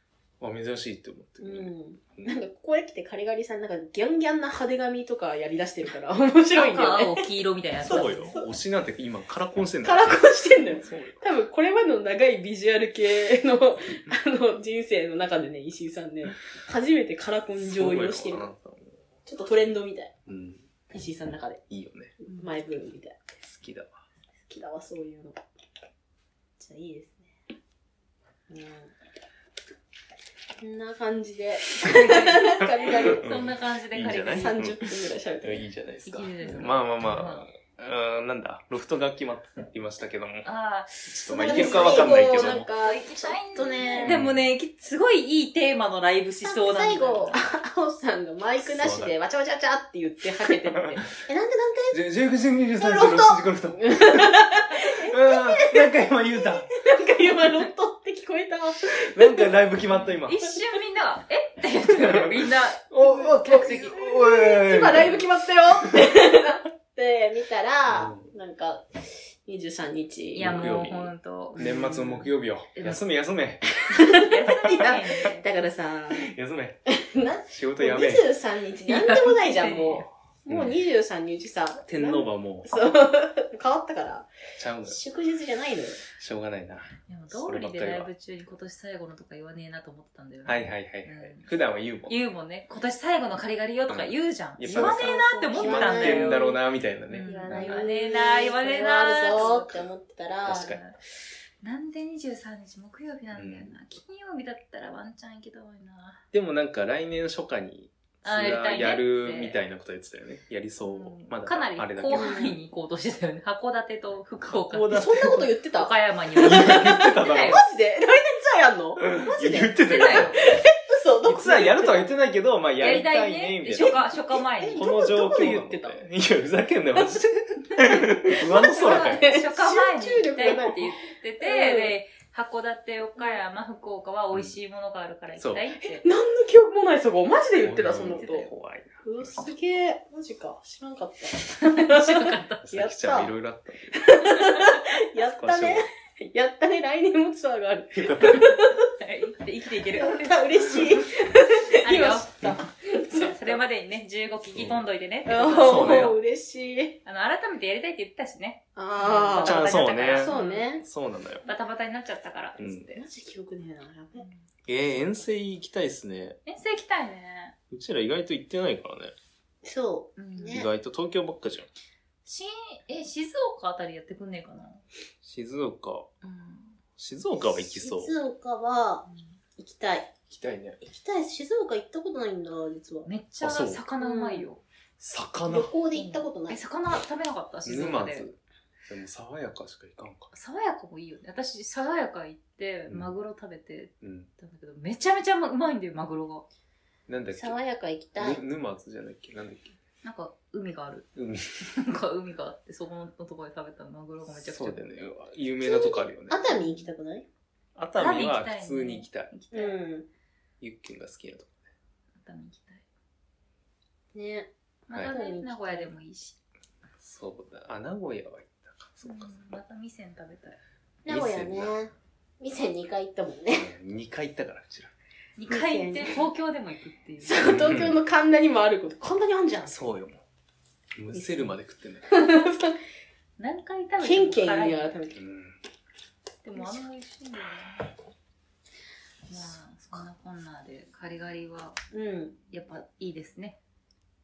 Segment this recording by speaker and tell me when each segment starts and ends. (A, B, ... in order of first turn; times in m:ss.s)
0:00.4-0:02.4 A
0:01.4-0:07.3 B
0:06.6-0:08.4 C
0:07.8-0:08.5 B
0:07.8-0:11.2 A
0:09.8-0:18.5 B
0:17.6-0:19.0 A
0:19.2-0:20.1 B
0:20.3-0:20.7 A
0:20.9-0:21.6 B
0:21.7-0:22.1 A
0:22.2-0:23.3 B
0:23.4-0:24.0 A
0:24.5-0:25.4 B
0:26.6-0:27.3 B
0:28.5-0:28.9 B
0:30.6-0:33.3 B
0:31.9-0:34.6 C
0:33.1-0:34.9 A
0:34.1-0:35.7 B
0:35.4-0:40.5 A
0:36.1-0:37.4 C
0:40.4-0:47.4 C
0:41.1-0:42.7 A
0:41.3-0:44.2 B
0:44.0-0:44.5 A
0:46.4-0:52.0 B
0:48.6-0:49.1 A
0:50.8-0:51.1 A
0:51.9-0:54.4 A
0:52.8-0:59.5 B
0:55.0-0:56.7 A
0:58.9-1:00.5 A
1:00.2-1:03.9 C
1:01.9-1:02.4 A
1:02.9-1:05.3 A
1:03.0-1:10.5 B
1:07.9-1:08.3 A
1:10.3-1:12.2 C
1:10.4-1:13.7 A
1:11.6-1:12.1 B
1:12.8-1:13.0 C
1:13.9-1:15.4 C
1:13.9-1:16.3 B
1:16.1-1:16.8 A
1:16.9-1:24.3 B
1:17.5-1:18.3 A
1:18.9-1:20.1 C
1:20.5-1:20.8 A
1:21.9-1:22.8 A
1:24.6-1:25.0 A
1:24.8-1:26.0 B
1:26.2-1:28.1 A
1:27.1-1:31.5 C
1:30.4-1:32.2 A
1:32.1-1:36.6 C
1:33.9-1:37.9 A
1:34.7-1:36.6 B
1:37.1-1:39.8 C
1:37.3-1:40.8 B
1:40.5-1:40.8 A
1:40.5-1:40.9 C
1:41.6-1:46.2 C
1:43.3-1:43.7 A
1:46.3-1:52.4 A
1:48.2-1:49.6 C
1:50.8-1:57.6 C
1:52.1-1:52.6 B
1:54.5-1:55.5 A
1:54.9-2:02.1 B
1:56.4-1:57.6 A
1:59.0-2:00.3 A
1:59.8-2:00.4 C
2:01.2-2:04.0 A
2:02.8-2:04.8 C
2:04.1-2:06.0 B
2:04.7-2:09.2 A
2:07.9-2:12.0 B
2:08.4-2:16.0 C
2:15.4-2:15.7 A
2:15.8-2:18.5 B
2:17.6-2:19.5 A
2:18.2-2:18.5 C
2:19.0-2:23.3 B
2:21.6-2:22.6 C
2:22.6-2:24.1 A
2:23.9-2:28.9 B
2:25.2-2:25.8 A
2:28.0-2:28.4 A
2:28.2-2:30.9 C
2:29.9-2:33.6 B
2:31.8-2:36.2 C
2:34.5-2:34.8 A
2:35.3-2:37.0 B
2:35.6-2:36.2 A
2:37.0-2:40.7 C
2:38.8-2:40.8 B
2:39.4-2:41.5 A
2:41.5-2:43.0 C
2:42.6-2:43.0 A
2:43.0-2:44.3 B
2:44.7-2:46.4 A
2:46.5-2:47.6 C
2:47.7-2:49.1 A
2:49.6-2:50.7 B
2:50.2-2:50.6 C
2:50.5-2:51.7 A
2:52.2-2:54.8 C
2:55.2-2:56.1 A
2:56.2-2:56.8 C
2:57.0-2:58.2 A
2:57.6-3:00.1 B
2:59.1-2:59.4 C
3:00.3-3:00.8 A
3:00.8-3:03.1 B
3:03.1-3:04.6 C
3:03.4-3:03.8 A
3:04.0-3:04.5 B
3:05.0-3:05.7 A
3:05.5-3:06.6 B
3:05.9-3:08.3 C
3:07.6-3:10.3 A
3:10.3-3:16.5 C
3:14.0-3:14.3 A
3:17.1-3:17.6 A
3:17.3-3:18.4 B
3:18.2-3:19.7 A
3:20.0-3:21.1 C
3:21.2-3:21.6 A
3:21.6-3:25.0 C
3:24.3-3:26.4 A
3:25.6-3:27.3 B
3:26.5-3:26.9 C
3:27.8-3:29.3 A
3:28.0-3:29.8 C
3:29.5-3:30.1 B
3:30.6-3:31.5 A
3:32.2-3:32.8 C
3:34.1-3:34.5 B
3:34.9-3:36.4 C
3:35.1-3:35.9 B
3:37.0-3:39.4 A
3:39.0-3:40.6 C
3:41.0-3:43.7 B
3:41.1-3:41.7 A
3:43.5-3:44.9 A
3:45.4-3:47.5 C
3:45.5-3:46.3 B
3:47.2-3:49.9 B
3:47.4-3:48.0 A
3:49.7-3:50.2 A
3:51.0-3:52.1 A
3:51.1-3:51.5 B
3:52.1-3:52.8 B
3:53.4-3:54.9 C
3:54.0-3:55.2 B
3:55.2-3:55.6 A
3:56.4-3:57.9 C
3:56.6-3:56.8 B
3:59.3-4:01.8 C
4:01.9-4:02.4 B
4:02.5-4:03.6 C